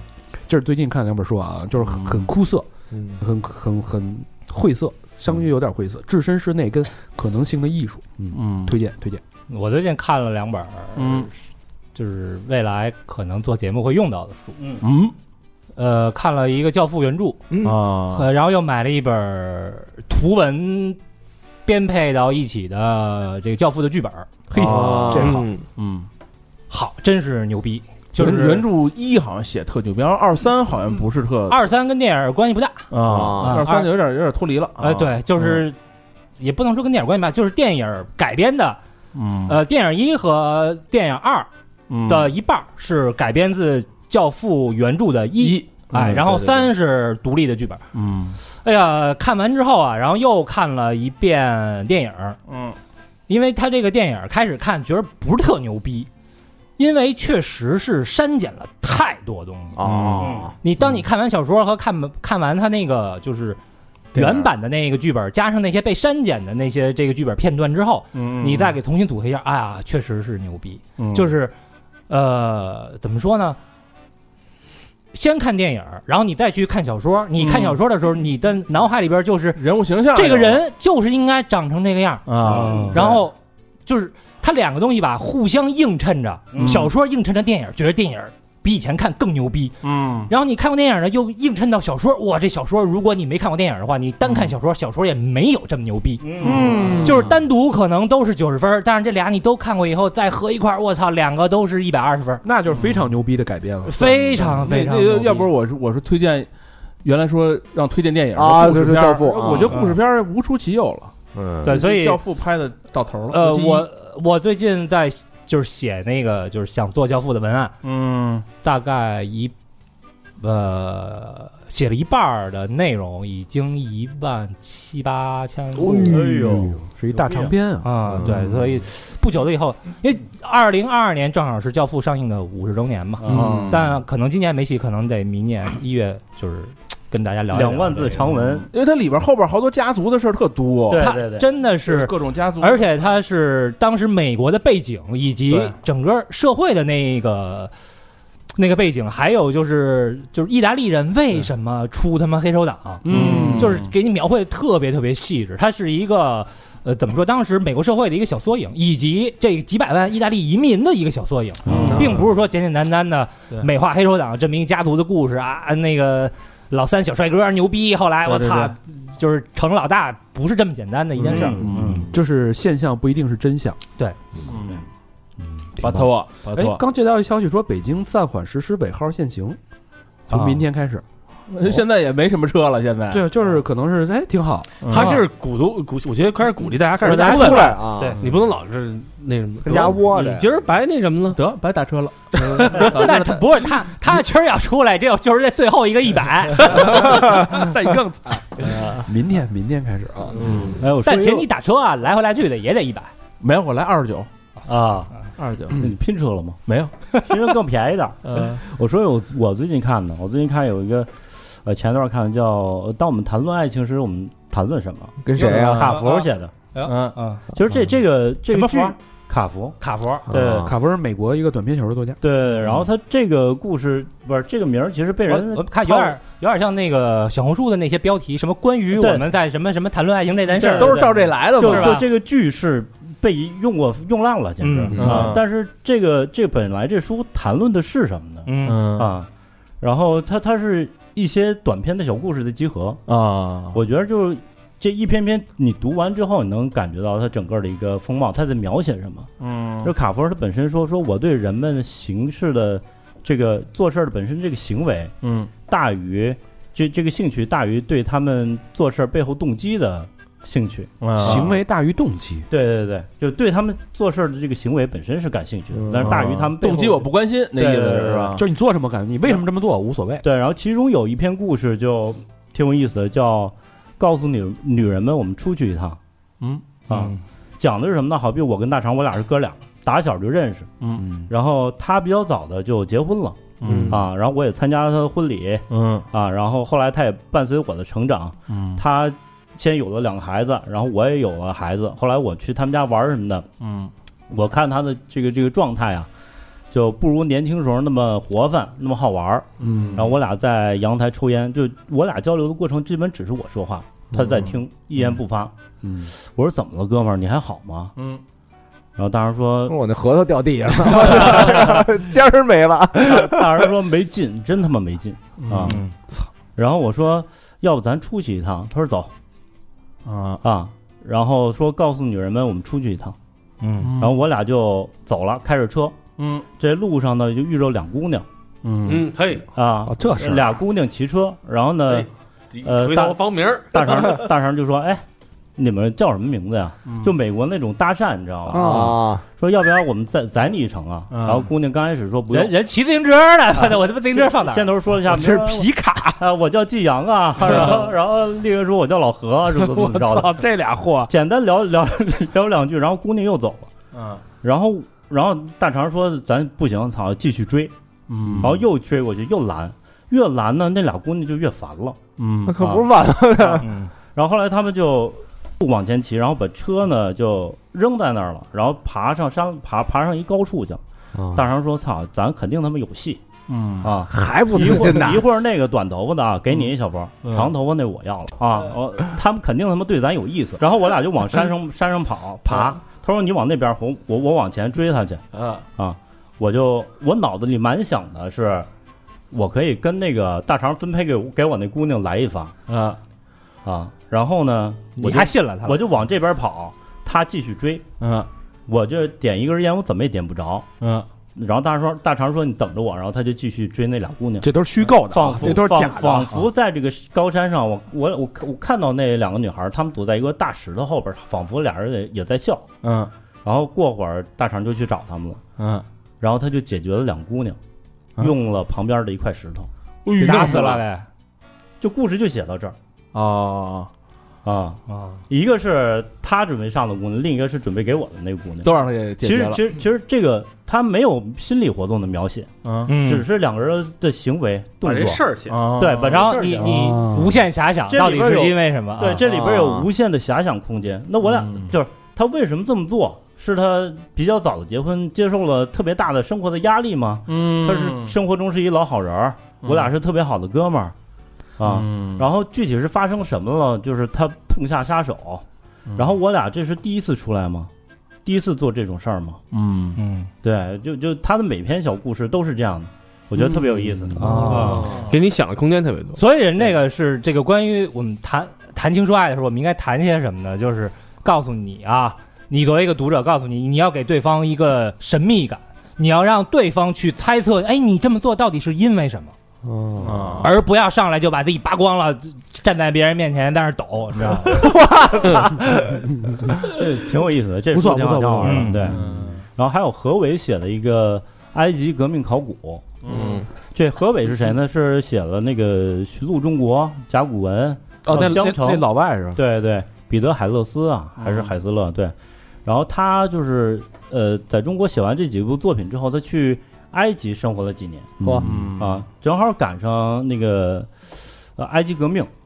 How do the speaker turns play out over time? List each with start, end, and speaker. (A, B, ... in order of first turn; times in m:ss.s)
0:00.5-0:02.6 A
0:01.8-0:02.3 B
0:03.2-0:09.2 A
0:08.3-0:08.7 B
0:09.5-0:11.3 C
0:11.0-0:11.3 B
0:11.9-0:14.6 C
0:14.8-0:15.1 B
0:15.8-0:17.4 C
0:17.5-0:17.8 D
0:17.6-0:18.3 B
0:18.1-0:21.0 C
0:21.6-0:24.3 C
0:24.5-0:25.4 A
0:24.5-0:26.1 B
0:24.6-0:25.6 E
0:26.7-0:28.6 C
0:28.1-0:31.6 B
0:31.5-0:33.9 C
0:32.9-0:35.6 B
0:33.0-0:33.6 D
0:34.8-0:35.8 C
0:36.4-0:38.8 C
0:39.1-0:39.6 B
0:39.5-0:41.5 C
0:41.9-0:42.3 B
0:42.0-0:47.8 C
0:45.4-0:46.7 B
0:47.9-0:48.4 B
0:48.6-0:52.4 C
0:52.5-0:52.8 B
0:53.3-0:56.1 C
0:56.8-0:59.8 C
0:59.8-1:00.6 D
0:59.8-1:00.3 B
1:00.2-1:00.5 F
1:00.6-1:03.6 C
1:04.1-1:11.5 C
1:04.1-1:04.4 B
1:08.1-1:08.8 B
1:11.0-1:11.4 B
1:12.1-1:13.6 C
1:15.1-1:23.3 C
1:17.4-1:17.8 B
1:19.5-1:20.6 B
1:22.2-1:23.2 B
1:22.4-1:23.0 A
1:23.8-1:29.8 C
1:26.5-1:26.8 F
1:26.6-1:26.9 B
1:29.8-1:30.3 B
1:30.3-1:36.3 C
1:36.2-1:37.0 F
1:36.4-1:37.0 B
1:36.4-1:37.3 A
1:37.0-1:42.4 C
1:42.4-1:44.0 A
1:43.8-1:45.5 C
1:44.0-1:46.5 B
1:47.0-1:51.1 B
1:48.3-1:49.8 D
1:51.3-1:51.7 D
1:51.6-1:52.2 C
1:51.6-1:53.9 B
1:53.3-1:57.7 C
1:57.8-1:58.4 B
1:58.6-1:59.5 C
2:00.4-2:06.1 C
2:05.8-2:08.2 A
2:06.0-2:07.5 F
2:07.8-2:18.2 C
2:13.2-2:13.6 F
2:13.3-2:13.8 D
2:13.3-2:13.7 B
2:17.5-2:18.7 F
2:18.7-2:21.1 B
2:20.9-2:21.4 F
2:21.0-2:27.7 C
2:21.8-2:23.0 B
2:25.5-2:25.8 B
2:28.6-2:51.6 C
2:33.0-2:33.7 A
2:33.1-2:33.9 B
2:33.1-2:33.4 F
2:41.6-2:42.1 F
2:41.8-2:42.0 B
2:48.3-2:48.7 B
2:51.2-2:52.1 B
2:51.3-2:52.1 F
2:51.6-2:53.8 A
2:54.5-2:54.8 B
2:55.8-2:56.8 B
2:55.8-2:59.6 A
3:00.3-3:01.0 A
3:01.5-3:03.2 B
3:03.1-3:04.8 A
3:04.8-3:05.2 B
3:04.9-3:11.4 E
3:04.9-3:05.2 C
3:07.0-3:08.3 D
3:07.1-3:08.2 C
3:09.6-3:10.5 D
3:11.3-3:13.4 B
3:12.4-3:13.0 E
3:12.7-3:17.0 C
3:16.9-3:20.6 A
3:20.4-3:20.8 B
3:20.8-3:21.5 F
3:21.0-3:23.1 C
3:23.4-3:24.3 B
3:24.7-3:25.1 F
3:25.4-3:25.9 B
3:25.7-3:26.6 F
3:26.7-3:26.9 B
3:27.1-3:36.5 F
3:28.2-3:28.6 B
3:35.2-3:36.0 D
3:35.4-3:35.7 B
3:35.4-3:37.4 C
3:36.8-3:37.2 B
3:37.5-3:39.8 F
3:38.5-3:39.0 C
3:39.8-3:40.2 C
3:40.3-3:40.7 F
3:40.3-3:40.7 D
3:40.6-3:42.2 A
3:42.2-3:46.2 F
3:45.3-3:52.0 C
3:48.9-3:49.2 F
3:50.6-3:59.3 F
3:50.7-3:52.0 B
3:54.6-3:55.0 C
3:54.9-3:55.4 B
3:55.0-3:55.2 D
3:58.4-3:58.8 C
3:58.6-3:59.1 B
3:59.8-4:03.0 F
4:03.1-4:03.8 B
4:03.7-4:09.3 F
4:09.4-4:09.9 B
4:09.8-4:15.1 F
4:15.2-4:15.5 B
4:15.7-4:21.5 F
4:21.0-4:21.5 B
4:21.2-4:22.5 A
4:22.5-4:28.3 F
4:25.8-4:28.4 B
4:28.4-4:30.2 A
4:30.2-4:36.0 F
4:36.4-4:36.6 B
4:36.9-4:40.7 F
4:41.3-4:53.4 F
4:43.6-4:44.0 B
4:45.7-4:46.1 B
4:48.5-4:48.8 B
4:53.6-4:53.9 B
4:54.3-4:56.1 F
4:56.7-5:05.5 F
4:59.6-5:00.1 B
4:59.6-5:00.0 A
5:05.8-5:06.1 A
5:06.2-5:07.9 F
5:09.0-5:09.8 F
5:09.7-5:13.7 D
5:11.0-5:11.8 F
5:13.0-5:15.8 F
5:15.4-5:15.9 B
5:16.6-5:19.1 F
5:20.0-5:20.4 B
5:20.4-5:23.2 F
5:23.6-5:23.9 C
5:23.8-5:24.2 B
5:24.0-5:26.0 F
5:26.2-5:26.4 B
5:26.6-5:28.2 F
5:28.6-5:29.1 B
5:28.8-5:29.4 E
5:29.5-5:32.1 F
5:29.8-5:30.6 A
5:31.9-5:34.2 E
5:32.6-5:33.2 F
5:33.7-5:35.0 F
5:35.6-5:38.8 F
5:36.9-5:37.1 B
5:38.5-5:39.2 D
5:38.5-5:39.0 A
5:39.4-5:42.5 F
5:41.1-5:41.5 B
5:42.3-5:44.7 C
5:44.1-5:50.4 F
5:45.1-5:46.2 A
5:49.7-5:51.1 A
5:51.1-5:53.7 F
5:53.9-5:54.2 B
5:54.4-5:57.7 F
5:58.1-5:58.6 B
5:58.4-6:02.0 F
6:02.2-6:02.6 B
6:02.4-6:03.7 D
6:02.6-6:10.8 F
6:03.6-6:03.9 C
6:11.1-6:11.4 D
6:11.3-6:13.2 F
6:13.5-6:13.9 B
6:13.8-6:25.2 F
6:13.9-6:15.2 D
6:14.6-6:14.8 B
6:17.2-6:17.5 B
6:25.4-6:25.6 B
6:25.8-6:28.7 F
6:29.3-6:32.5 F
6:32.7-6:33.0 B
6:33.6-6:37.8 F
6:35.0-6:35.8 C
6:38.0-6:38.3 B
6:38.7-6:40.7 F
6:40.8-6:41.0 B
6:41.4-6:44.5 F
6:44.4-6:46.5 A
6:45.1-6:52.7 F
6:52.8-6:53.1 B
6:53.4-6:55.4 F
6:55.6-6:55.8 B
6:56.2-6:57.6 F
6:58.2-6:59.7 F
7:00.0-7:00.8 B
7:00.2-7:01.0 C
7:01.8-7:02.7 F
7:03.1-7:03.9 B
7:04.4-7:12.5 F
7:04.9-7:05.2 C
7:08.6-7:09.6 B
7:12.6-7:12.9 B
7:12.8-7:13.2 C
7:13.0-7:15.2 F
7:14.8-7:15.7 E
7:15.5-7:16.3 B
7:15.8-7:16.9 F
7:16.0-7:19.2 C
7:16.6-7:17.3 A
7:17.9-7:30.9 F
7:19.2-7:19.9 D
7:21.2-7:21.7 B
7:27.3-7:28.1 B
7:29.6-7:29.9 B
7:31.6-7:35.4 F
7:31.6-7:32.2 B
7:36.0-7:37.7 F
7:38.2-7:39.4 F
7:39.5-7:40.0 B
7:40.0-7:40.3 C
7:40.4-7:45.0 F
7:44.2-7:44.8 C
7:44.4-7:45.1 B
7:44.8-7:46.2 E
7:46.2-7:59.3 C
8:00.0-8:00.5 B
8:00.4-8:04.7 C
8:04.6-8:05.6 D
8:05.9-8:06.5 A
8:06.7-8:09.0 F
8:07.7-8:08.7 A
8:08.4-8:08.8 C
8:08.8-8:09.4 B
8:09.6-8:12.8 F
8:13.0-8:13.4 B
8:13.1-8:13.4 D
8:13.7-8:22.1 F
8:18.0-8:19.4 A
8:21.2-8:21.5 B
8:22.6-8:28.1 F
8:28.2-8:28.5 A
8:28.2-8:28.6 D
8:28.4-8:29.0 B
8:28.8-8:32.3 F